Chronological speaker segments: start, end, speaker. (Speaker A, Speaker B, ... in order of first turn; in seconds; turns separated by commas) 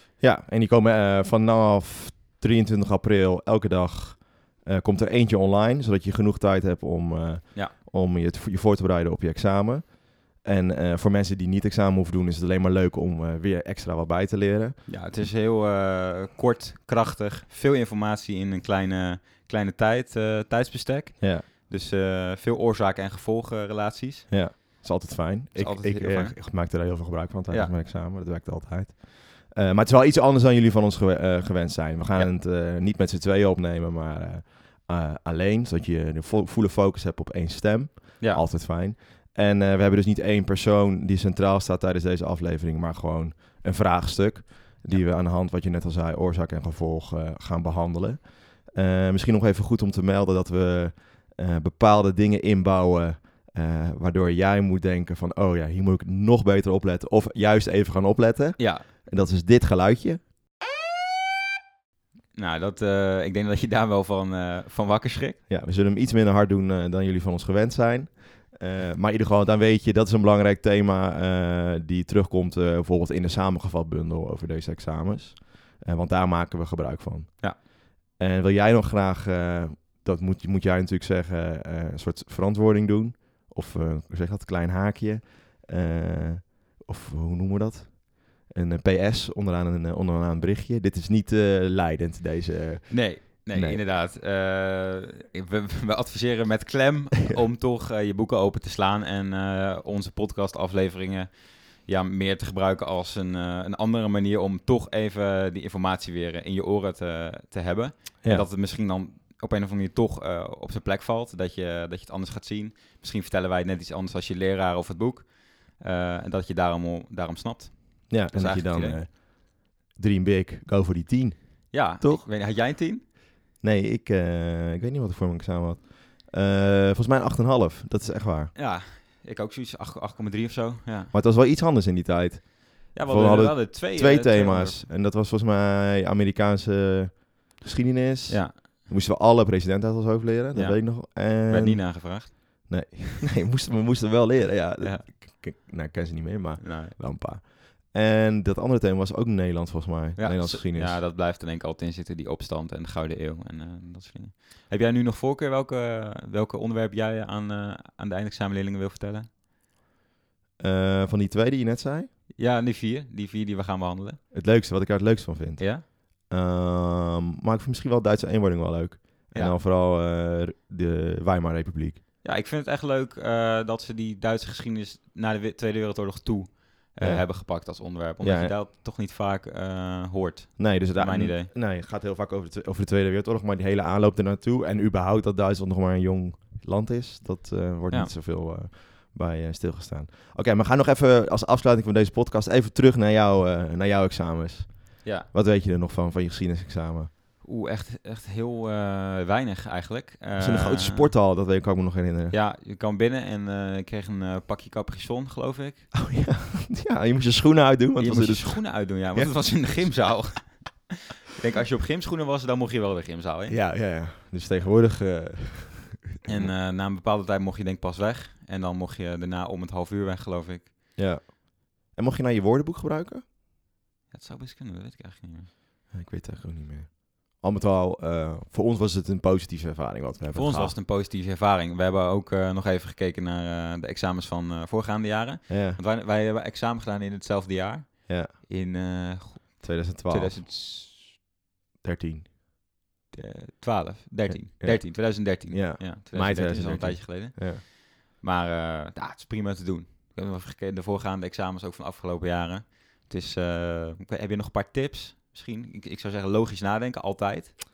Speaker A: 0.2-14.8, Speaker B: 14.9-24.6, Speaker A: 21.2-21.5, Speaker A: 24.3-60.2, Speaker B: 25.5-26.4, Speaker B: 58.6-58.9, Speaker B: 62.3-65.4, Speaker A: 65.5-93.8, Speaker B: 92.9-119.0, Speaker A: 118.1-122.3, Speaker B: 121.7-123.0, Speaker A: 123.6-128.6, Speaker B: 128.6-131.1, Speaker A: 131.1-151.0, Speaker B: 132.9-134.8, Speaker B: 138.3-138.7, Speaker B: 140.5-142.7, Speaker B: 144.8-145.1, Speaker B: 146.6-147.0, Speaker B: 150.2-159.3, Speaker A: 160.6-162.1, Speaker B: 162.4-164.2, Speaker A: 164.3-172.0, Speaker B: 165.6-165.8, Speaker B: 172.2-181.5, Speaker A: 177.0-178.6, Speaker A: 180.6-197.1, Speaker B: 195.0-195.3, Speaker B: 197.4-201.1, Speaker A: 200.4-202.4, Speaker B: 202.3-205.9, Speaker A: 205.9-209.9, Speaker B: 208.0-213.6, Speaker A: 213.5-216.5, Speaker B: 216.2-220.8, Speaker A: 221.0-223.2, Speaker B: 224.1-225.5, Speaker A: 225.9-230.8, Speaker B: 230.3-241.2, Speaker A: 235.5-235.8, Speaker A: 238.1-238.3, Speaker A: 239.6-240.4, Speaker A: 241.8-242.3, Speaker B: 243.1-257.6, Speaker A: 244.3-247.6